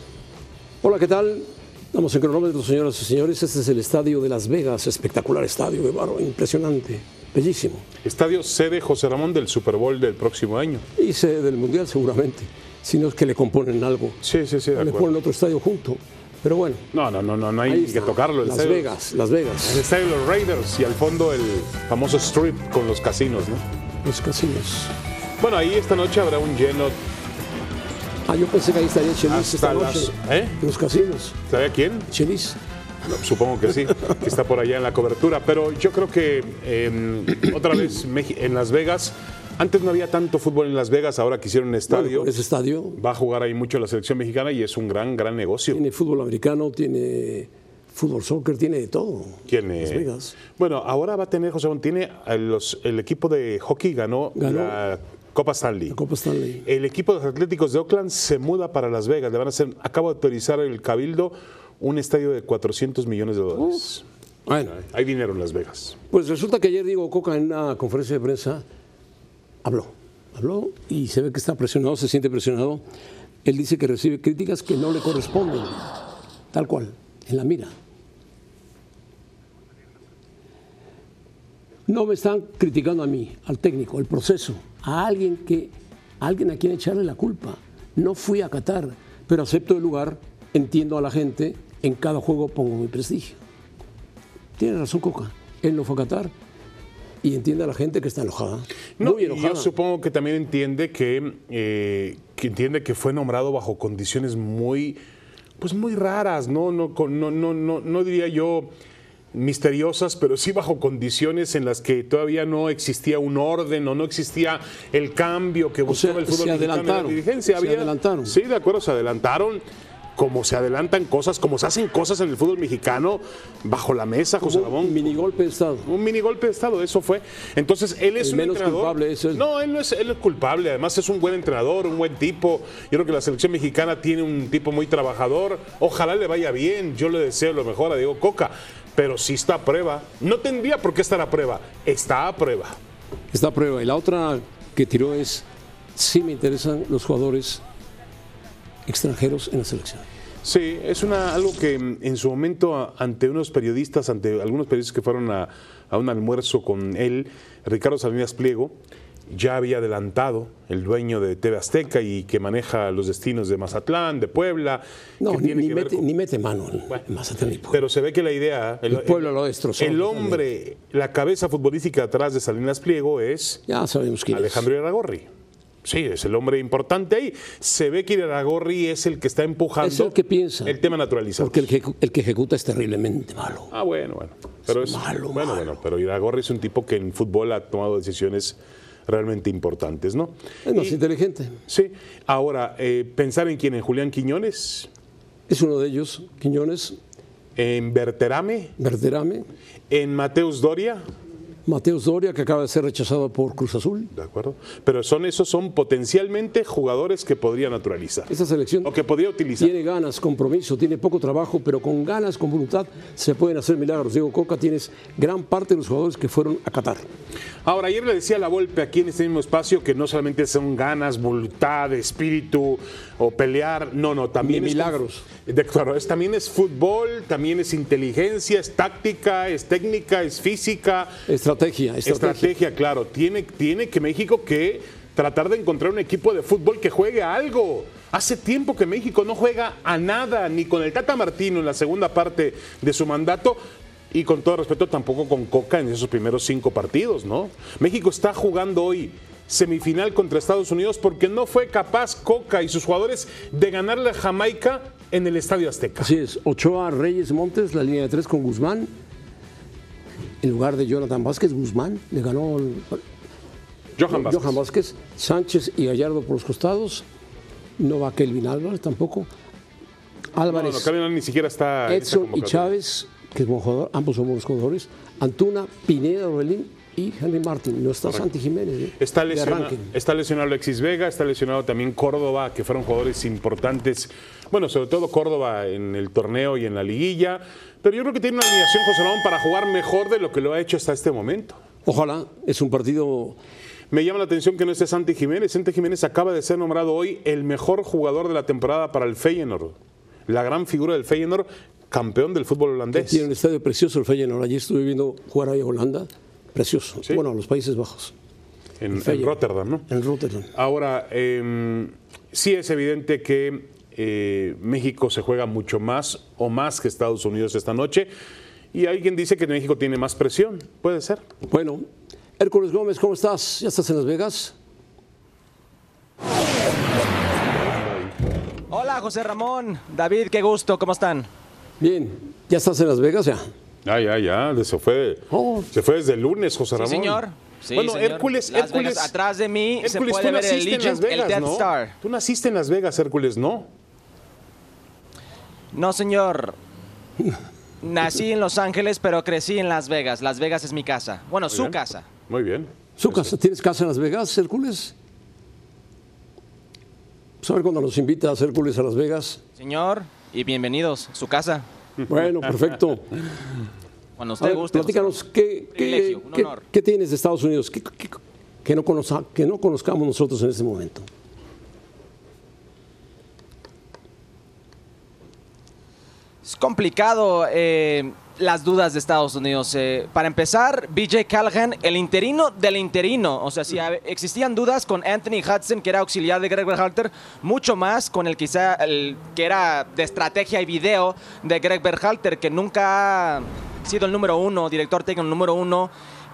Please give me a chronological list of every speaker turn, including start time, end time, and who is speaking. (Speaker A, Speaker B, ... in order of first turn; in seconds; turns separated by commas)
Speaker A: 0.8-7.8, Speaker B: 8.0-10.8, Speaker A: 10.9-14.2, Speaker B: 14.2-15.1, Speaker A: 14.7-16.9, Speaker B: 16.9-18.9, Speaker A: 17.6-19.8, Speaker B: 19.6-23.6, Speaker A: 24.0-24.9, Speaker B: 25.4-27.0, Speaker A: 28.3-31.4, Speaker B: 29.3-30.6, Speaker B: 31.5-32.1, Speaker A: 32.1-32.6, Speaker B: 33.1-42.3, Speaker A: 41.9-43.0, Speaker B: 43.0-45.8, Speaker A: 45.7-50.4, Speaker B: 49.5-56.0, Speaker A: 54.3-54.8, Speaker A: 55.9-56.6, Speaker B: 56.6-64.0, Speaker A: 64.5-64.8, Speaker B: 64.7-66.0, Speaker A: 66.1-68.6, Speaker A: 69.6-72.8, Speaker A: 73.4-75.9, Speaker A: 76.5-77.7, Speaker A: 81.9-93.4, Speaker A: 94.6-96.3, Speaker A: 97.2-99.7, Speaker B: 99.0-105.0, Speaker B: 105.6-108.7, Speaker B: 109.3-119.6, Speaker A: 115.9-118.3, Speaker B: 120.2-125.2, Speaker A: 124.4-125.9, Speaker B: 125.8-142.8, Speaker A: 128.2-129.4, Speaker A: 143.3-147.6, Speaker A: 148.8-150.1, Speaker B: 150.4-158.7, Speaker B: 159.3-166.0, Speaker A: 165.2-167.8, Speaker B: 167.7-173.6, Speaker A: 168.9-170.4, Speaker A: 173.7-174.7, Speaker B: 174.3-175.3, Speaker B: 175.8-181.7, Speaker A: 179.8-180.8, Speaker A: 181.4-183.7, Speaker B: 183.7-191.0, Speaker A: 184.7-185.7, Speaker A: 190.6-191.6, Speaker B: 191.7-194.9, Speaker A: 195.5-197.0, Speaker B: 197.6-198.7, Speaker A: 198.8-199.5, Speaker B: 199.9-201.0, Speaker A: 201.7-204.1, Speaker B: 204.1-208.3, Speaker A: 208.3-208.9, Speaker B: 208.8-209.7, Speaker A: 209.6-217.1, Speaker B: 217.6-231.1, Speaker A: 224.4-225.2, Speaker A: 231.3-232.5, Speaker B: 232.0-243.6, Speaker B: 244.1-256.1, Speaker A: 256.0-258.9, Speaker A: 260.4-263.0, Speaker B: 264.0-264.6, Speaker A: 264.1-267.1, Speaker A: 267.8-269.3, Speaker A: 270.3-270.9, Speaker B: 270.5-272.7, Speaker A: 271.9-279.9, Speaker B: 279.0-291.6, Speaker A: 291.8-293.4, Speaker B: 293.9-299.8, Speaker B: 300.3-303.3, Speaker A: 302.9-308.1, Speaker B: 308.8-309.9, Speaker A: 308.9-310.5, Speaker B: 310.5-318.1, Speaker B: 318.7-321.2, Speaker A: 321.5-321.8, Speaker A: 322.4-324.5, Speaker B: 327.6-328.1, Speaker C: 328.7-331.3, Speaker A: 331.8-333.4, Speaker B: 333.8-337.2, Speaker A: 335.3-335.7, Speaker C: 336.8-341.9, Speaker B: 337.7-339.1, Speaker B: 339.8-343.7, Speaker C: 345.7-346.6, Speaker C: 347.8-352.1, Speaker B: 351.5-351.8, Speaker B: 352.3-353.3, Speaker A: 353.0-354.9, Speaker A: 357.4-359.4, Speaker C: 359.6-361.6, Speaker A: 362.1-363.2, Speaker C: 364.2-365.2, Speaker A: 364.4-371.1, Speaker C: 365.7-366.6, Speaker C: 376.4-395.9